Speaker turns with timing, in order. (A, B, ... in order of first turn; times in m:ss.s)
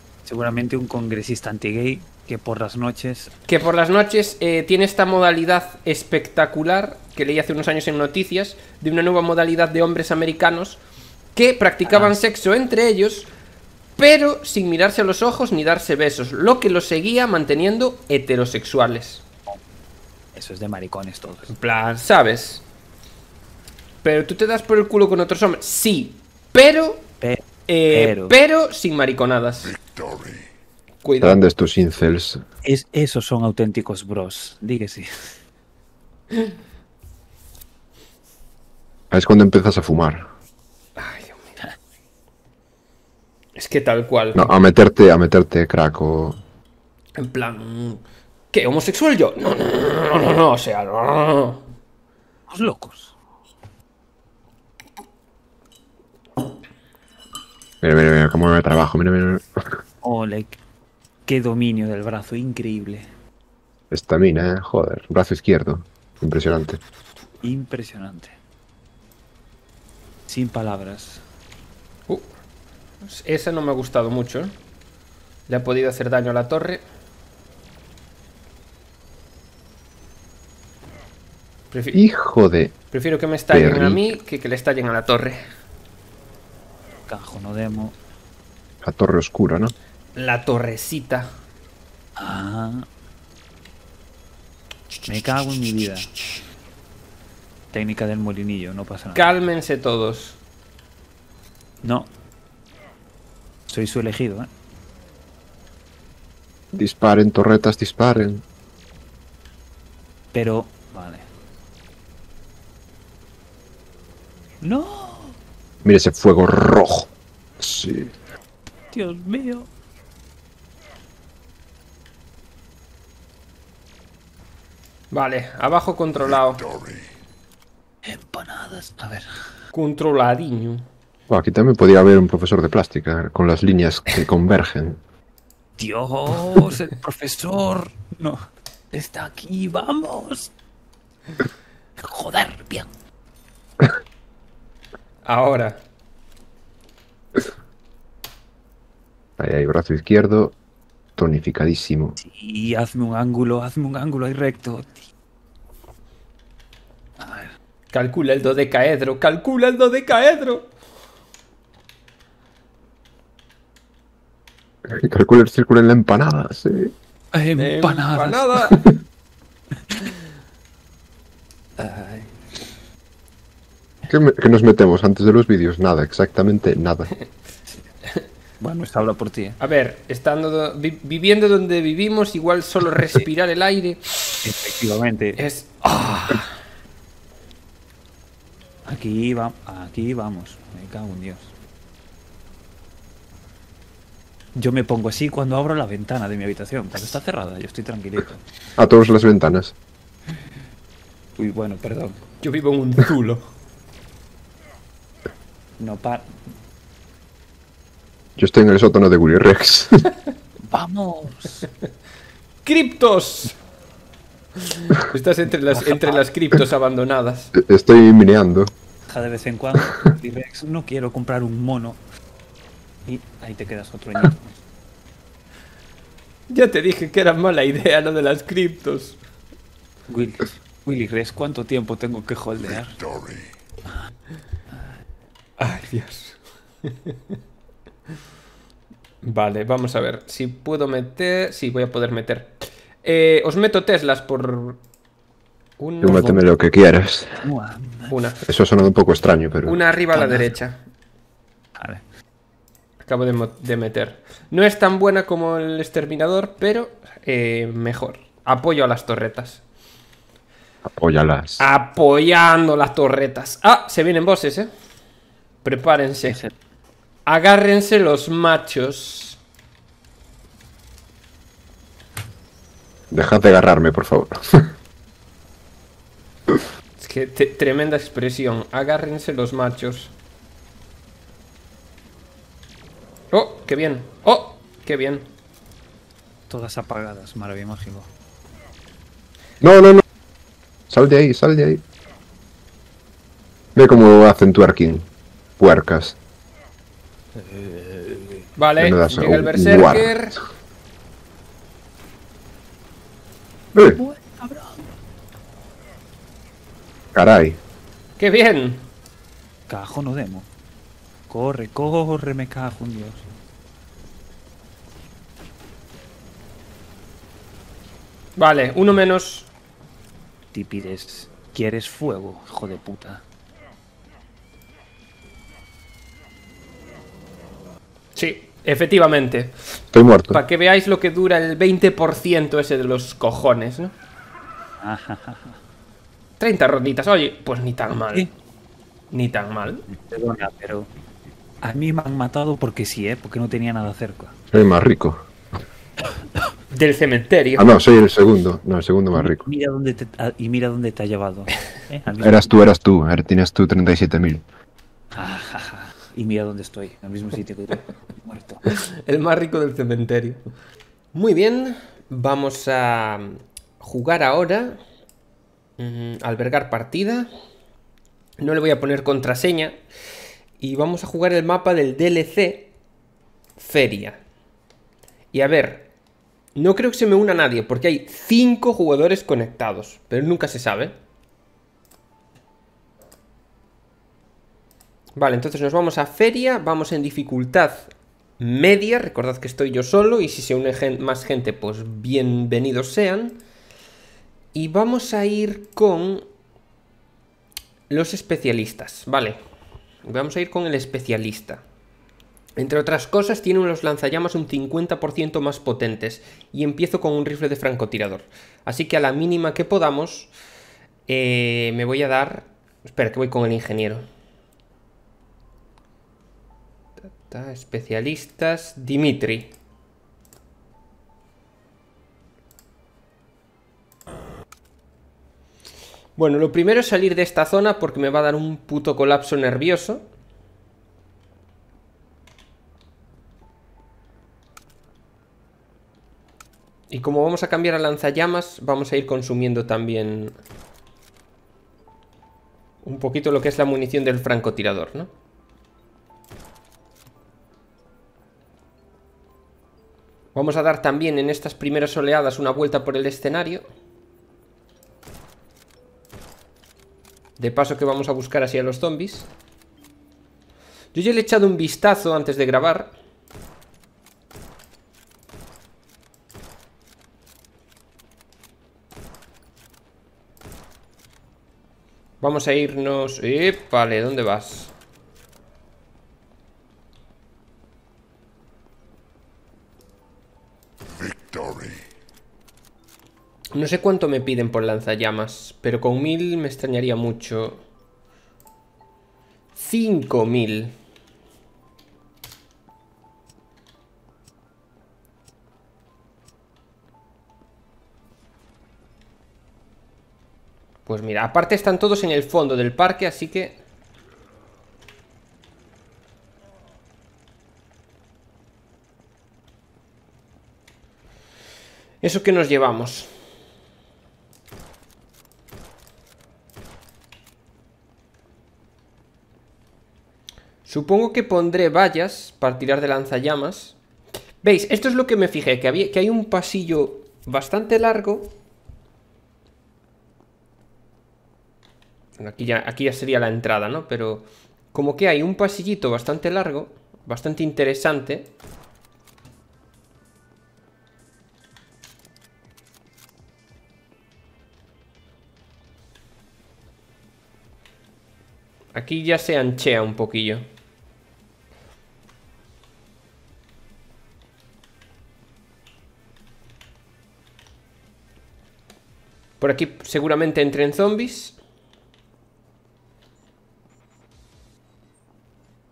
0:00.3-0:03.3 A
0:03.5-0:10.8 B
0:11.4-0:13.3 B
0:11.8-0:12.2 A
0:14.0-0:19.2 B
0:20.3-0:21.5 A
0:21.5-0:22.6 B
0:24.0-0:27.1 B
0:27.2-0:28.3 A
0:27.7-0:29.8 B
0:31.0-0:31.4 B
0:31.2-0:32.4 C
0:32.6-0:35.3 A
0:39.1-0:40.3 C
0:41.0-0:41.6 B
0:43.6-0:44.5 B
0:44.4-0:46.4 C
0:47.2-0:51.6 B
0:52.5-0:53.1 A
0:57.8-0:59.8 C
1:00.0-1:00.6 A
1:01.3-1:03.1 A
1:03.9-1:06.8 C
1:07.4-1:08.4 A
1:10.3-1:11.2 A
1:13.0-1:14.5 B
1:15.5-1:16.8 B
1:21.7-1:22.0 B
1:21.9-1:22.8 C
1:22.9-1:25.4 B
1:23.5-1:24.0 C
1:27.1-1:28.0 A
1:28.8-1:29.7 C
1:30.2-1:31.3 B
1:32.2-1:32.9 A
1:35.1-1:36.2 A
1:37.7-1:39.3 A
1:39.2-1:40.4 B
1:41.8-1:42.1 A
1:43.7-1:44.5 A
1:46.7-1:48.4 C
1:50.3-1:51.3 A
1:54.6-1:55.4 A
1:55.8-1:58.1 C
1:58.9-1:59.7 A
2:05.1-2:06.7 B
2:08.0-2:09.3 A
2:09.7-2:10.9 B
2:11.3-2:15.0 C
2:15.8-2:20.5 A
2:22.0-2:22.9 A
2:25.2-2:25.8 B
2:29.4-2:30.6 C
2:31.2-2:32.2 C
2:32.2-2:35.1 A
2:37.2-2:37.5 A
2:37.9-2:40.7 B
2:44.8-2:46.9 C
2:47.3-2:48.7 A
2:47.6-2:48.8 B
2:51.8-2:52.2 A
2:54.1-2:57.1 C
2:58.6-2:59.6 A
2:59.6-3:04.5 B
3:04.4-3:06.4 A
3:05.4-3:06.4 B
3:08.9-3:11.5 A
3:14.6-3:18.4 A
3:18.8-3:19.8 C
3:21.4-3:22.2 A
3:22.4-3:23.4 B
3:25.8-3:26.3 A
3:28.4-3:30.1 C
3:30.7-3:31.7 A
3:32.6-3:33.6 B
3:34.7-3:37.5 B
3:35.7-3:36.2 A
3:37.6-3:38.7 C
3:39.1-3:42.0 A
3:43.1-3:44.6 A
3:46.5-3:49.2 B
3:50.1-3:53.0 A
3:55.6-3:57.2 B
3:59.2-4:04.8 B
4:05.8-4:06.4 B
4:06.0-4:07.5 C
4:06.1-4:06.4 A
4:07.4-4:08.2 A
4:08.1-4:08.4 B
4:08.5-4:09.8 C
4:09.7-4:10.8 B
4:10.1-4:10.5 A
4:13.0-4:19.6 B
4:20.9-4:21.7 C
4:21.6-4:24.7 B
4:25.6-4:26.4 B
4:27.3-4:29.4 B
4:33.1-4:34.7 C
4:37.0-4:40.1 B
4:43.3-4:45.3 B
4:46.5-4:48.1 A
4:49.6-4:50.0 C
4:50.9-4:51.8 C
4:53.8-4:55.1 C
4:55.6-4:56.2 C
4:57.4-4:58.4 A
4:58.6-5:00.4 B
4:58.8-5:00.2 C
5:03.9-5:04.9 A
5:07.1-5:07.6 C
5:08.2-5:08.9 B
5:09.7-5:10.5 A
5:11.3-5:13.3 A
5:18.4-5:19.5 B
5:20.5-5:23.2 A
5:28.2-5:29.5 B
5:29.9-5:30.4 C
5:30.3-5:33.9 B
5:34.8-5:35.6 A
5:36.4-5:38.3 B
5:39.1-5:39.8 B
5:40.1-5:40.9 A
5:41.6-5:44.4 A
5:44.5-5:45.3 C
5:46.7-5:47.7 B
5:47.6-5:49.5 C
5:49.2-5:52.5 A
5:52.2-5:54.4 C
5:55.2-5:58.6 A
5:58.7-6:00.4 B
6:01.1-6:04.8 B
6:05.8-6:07.3 B
6:08.4-6:09.8 B
6:10.6-6:12.7 B
6:13.6-6:14.2 B
6:15.3-6:15.9 B
6:16.6-6:20.9 B
6:25.2-6:33.4 B
6:34.5-6:36.2 B
6:37.9-6:39.4 B
6:40.0-6:41.6 B
6:42.6-6:50.3 B
6:51.1-6:54.0 B
6:57.2-6:59.5 B
7:06.2-7:10.0 B
7:16.9-7:20.4 B
7:22.8-7:25.1 B
7:30.4-7:33.6 B
7:37.4-7:39.3 B
7:40.9-7:42.9 B
7:52.2-7:54.7 B
8:03.5-8:07.6 B
8:09.6-8:10.7 B
8:20.9-8:23.6 B
8:32.0-8:33.1 B
8:40.6-8:43.8 B
8:44.4-8:48.4 B
8:52.2-8:58.3 B
9:08.7-9:10.4 B
9:19.4-9:21.4 B